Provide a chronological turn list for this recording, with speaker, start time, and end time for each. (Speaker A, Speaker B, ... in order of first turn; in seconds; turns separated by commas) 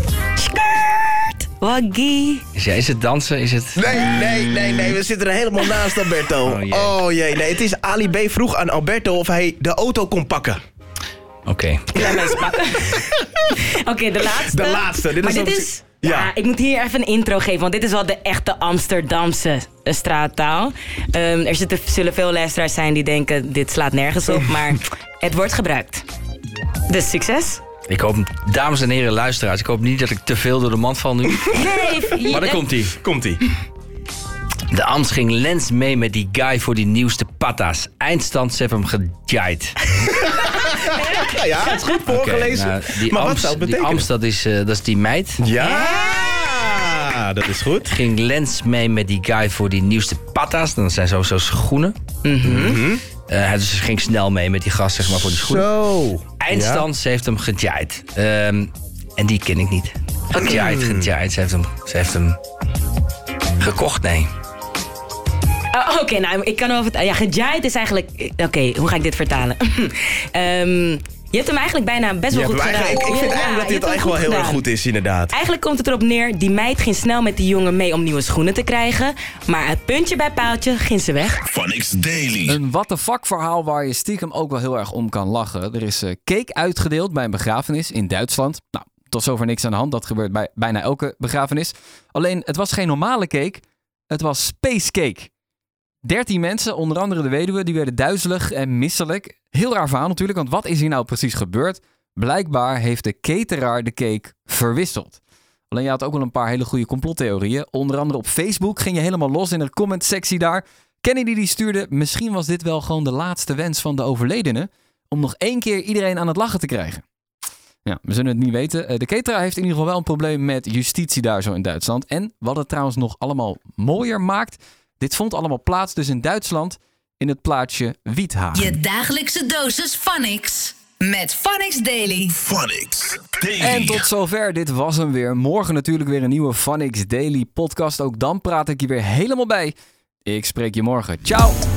Speaker A: 0.4-2.4, Speaker B: 2.5-3.8, Speaker C: 3.8-10.6, Speaker B: 6.4-7.0, Speaker B: 11.5-12.1, Speaker C: 12.0-12.4, Speaker A: 12.1-13.0, Speaker A: 13.7-26.1, Speaker C: 14.2-16.3, Speaker C: 24.4-24.6, Speaker A: 26.9-27.6, Speaker B: 27.9-33.0, Speaker A: 31.5-32.6, Speaker C: 33.0-33.4, Speaker B: 34.7-39.8, Speaker C: 40.2-44.1, Speaker A: 41.0-42.0, Speaker B: 42.1-45.4, Speaker C: 45.4-48.0, Speaker A: 45.6-46.0, Speaker B: 47.9-55.7, Speaker A: 52.2-52.8, Speaker C: 52.5-53.0, Speaker C: 55.3-56.9, Speaker B: 56.4-62.4, Speaker C: 60.4-61.1, Speaker B: 63.6-64.3, Speaker A: 65.7-74.6, Speaker C: 72.3-75.3, Speaker A: 75.3-81.4, Speaker D: 81.4-82.6, Speaker E: 82.5-95.3, Speaker E: 96.0-117.1, Speaker E: 117.8-128.7, Speaker F: 128.5-132.4, Speaker D: 132.3-134.1, Speaker E: 133.6-139.7, Speaker E: 140.2-141.6